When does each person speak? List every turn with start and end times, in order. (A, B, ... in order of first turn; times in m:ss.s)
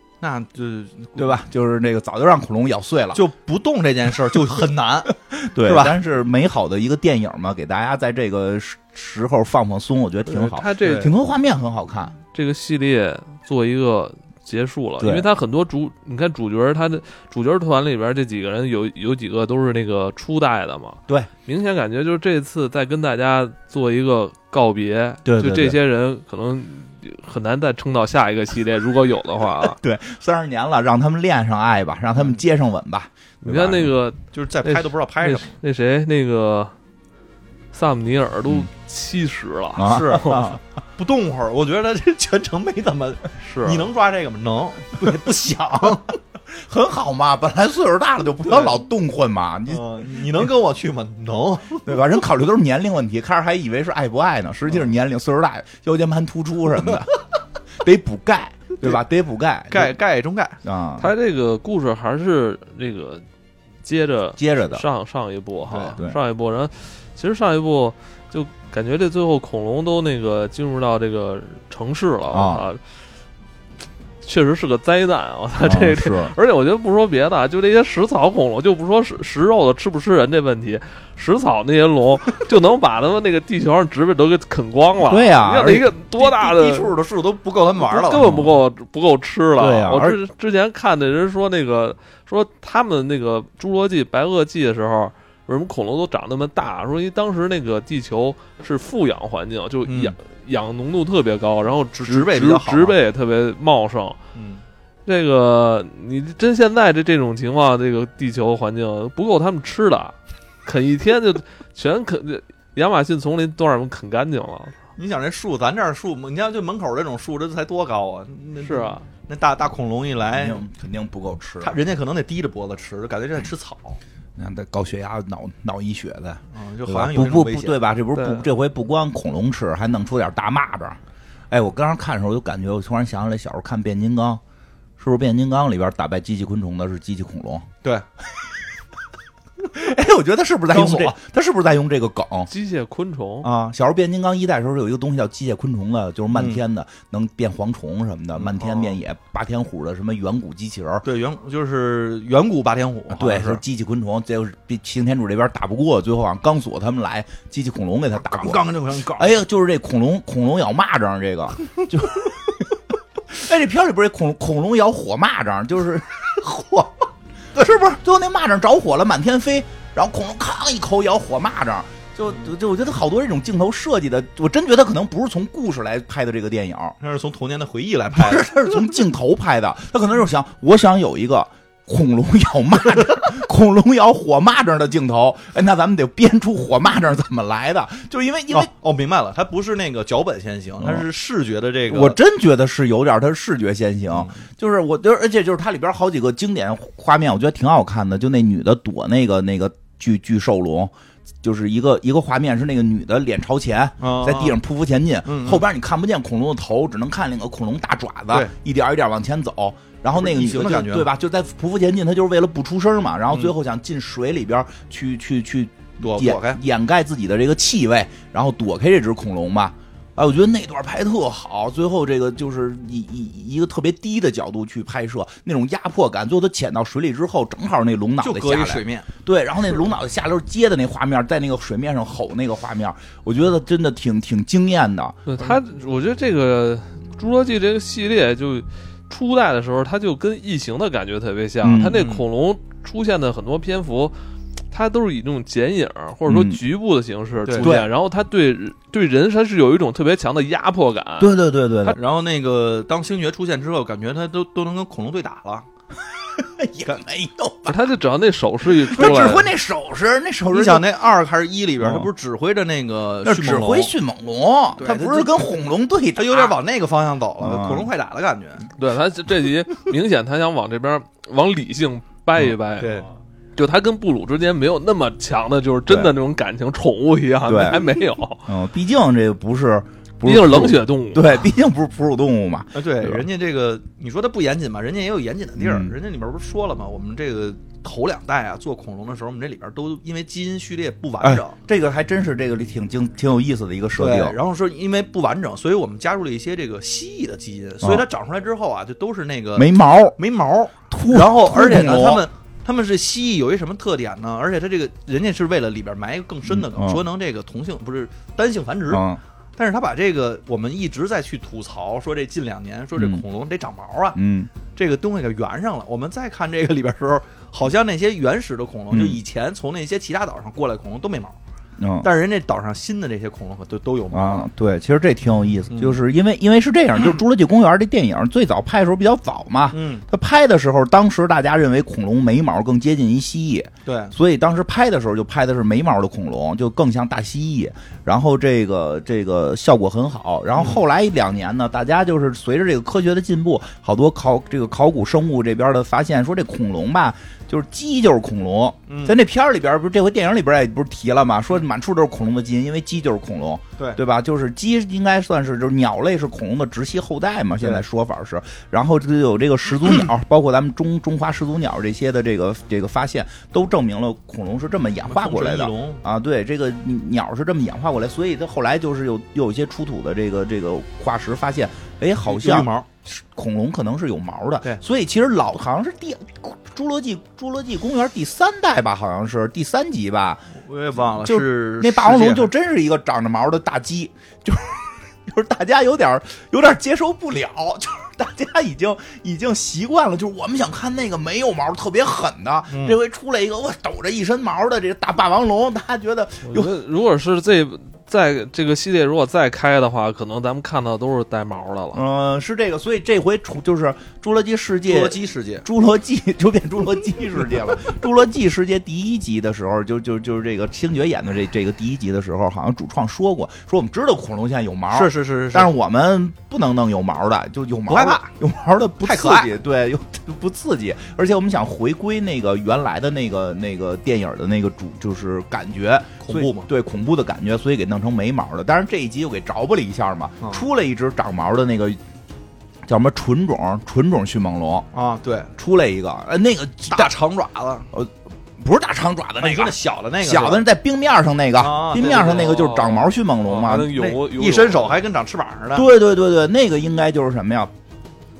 0:00.2-0:01.4 A
0:01.2-0:03.2 B
0:03.1-0:06.0 A
0:05.3-0:12.2 B
0:10.2-0:11.1 C
0:10.8-0:11.1 A
0:12.3-0:29.8 C
0:15.0-0:15.3 B
0:25.2-0:25.8 B
0:29.6-0:33.9 B
0:33.4-0:36.7 C
0:34.3-0:35.6 A
0:37.7-0:40.5 C
0:39.8-0:40.6 B
0:39.8-0:46.2 A
0:43.4-0:43.9 C
0:46.5-0:50.4 B
0:48.4-0:48.8 A
0:49.7-0:52.1 A
0:51.8-0:57.1 B
0:57.8-1:00.0 B
0:59.7-1:00.6 A
1:00.6-1:01.1 B
1:01.0-1:03.2 C
1:03.8-1:12.8 C
1:04.4-1:04.8 B
1:05.7-1:06.0 A
1:12.3-1:12.6 B
1:14.2-1:26.9 C
1:15.6-1:16.3 B
1:25.0-1:25.9 B
1:26.1-1:28.3 A
1:27.8-1:44.2 C
1:28.2-1:28.5 B
1:29.6-1:30.2 B
1:39.8-1:40.1 A
1:42.0-1:43.0 A
1:44.3-1:44.6 A
1:45.0-1:54.8 C
1:55.0-2:00.6 A
1:58.6-1:59.0 C
2:00.3-2:01.8 B
2:01.6-2:04.0 A
2:04.4-2:14.4 B
2:06.5-2:07.8 A
2:08.1-2:08.5 C
2:15.0-2:17.7 B
2:19.7-2:22.5 B
2:20.7-2:21.1 A
2:22.5-2:23.5 C
2:23.4-2:31.0 B
2:26.3-2:26.6 A
2:28.4-2:29.0 A
2:31.0-2:33.6 A
2:33.1-2:42.8 B
2:38.2-2:39.3 A
2:43.3-2:46.4 B
2:46.4-2:46.9 A
2:47.6-2:57.0 B
2:57.0-2:58.6 A
2:58.1-3:08.7 B
3:08.5-3:12.2 A
3:10.8-3:11.0 B
3:11.9-3:55.2 B
3:14.1-3:14.4 A
3:24.0-3:24.6 A
3:25.2-3:25.6 A
3:30.1-3:31.1 A
3:36.0-3:36.6 A
3:48.2-3:49.1 A
3:55.3-4:04.1 C
4:01.6-4:02.0 B
4:01.9-4:02.2 A
4:04.7-4:12.0 C
4:06.2-4:06.6 B
4:07.4-4:07.7 A
4:07.6-4:07.9 B
4:11.2-4:12.0 B
4:12.0-4:15.6 A
4:16.2-4:17.9 B
4:17.7-4:19.5 C
4:18.7-4:20.9 B
4:20.5-4:23.9 A
4:21.8-4:22.1 B
4:23.2-4:26.6 B
4:24.8-4:25.5 A
4:26.2-4:28.7 A
4:27.4-4:27.9 B
4:28.8-4:33.0 C
4:32.8-4:33.1 A
4:33.6-4:38.5 C
4:35.9-4:36.1 B
4:37.5-4:37.8 B
4:38.4-4:43.2 B
4:40.2-4:41.5 C
4:42.7-4:51.6 A
4:45.6-4:45.9 B
4:51.2-4:54.4 B
4:54.0-5:09.0 A
4:57.8-4:58.1 B
4:59.6-5:00.2 B
5:00.9-5:02.3 B
5:06.5-5:07.0 B
5:08.9-5:09.2 B
5:09.6-5:14.2 A
5:13.0-5:13.2 B
5:14.1-5:14.5 B
5:14.7-5:21.4 A
5:18.9-5:19.2 B
5:21.8-5:22.1 B
5:22.0-5:24.5 A
5:24.1-6:20.4 B
5:25.7-5:26.0 A
5:29.7-5:30.0 A
5:33.8-5:34.1 A
5:40.5-5:40.8 A
5:48.9-5:49.2 A
6:05.0-6:06.0 A
6:12.2-6:12.9 A
6:20.6-6:22.5 A
6:21.2-6:36.7 B
6:32.7-6:33.0 A
6:36.4-6:42.0 C
6:41.9-7:12.0 B
6:44.8-6:45.6 A
6:54.9-6:55.7 A
6:57.9-6:58.3 A
6:59.0-6:59.5 A
7:06.2-7:06.7 A
7:10.4-7:10.6 A
7:12.8-7:14.9 B
7:14.9-7:15.5 A
7:15.6-7:17.1 B
7:16.9-7:17.9 A
7:17.9-7:23.9 B
7:19.4-7:20.6 A
7:21.6-7:22.7 A
7:22.0-7:25.0 C
7:23.9-7:25.9 A
7:25.7-7:27.7 B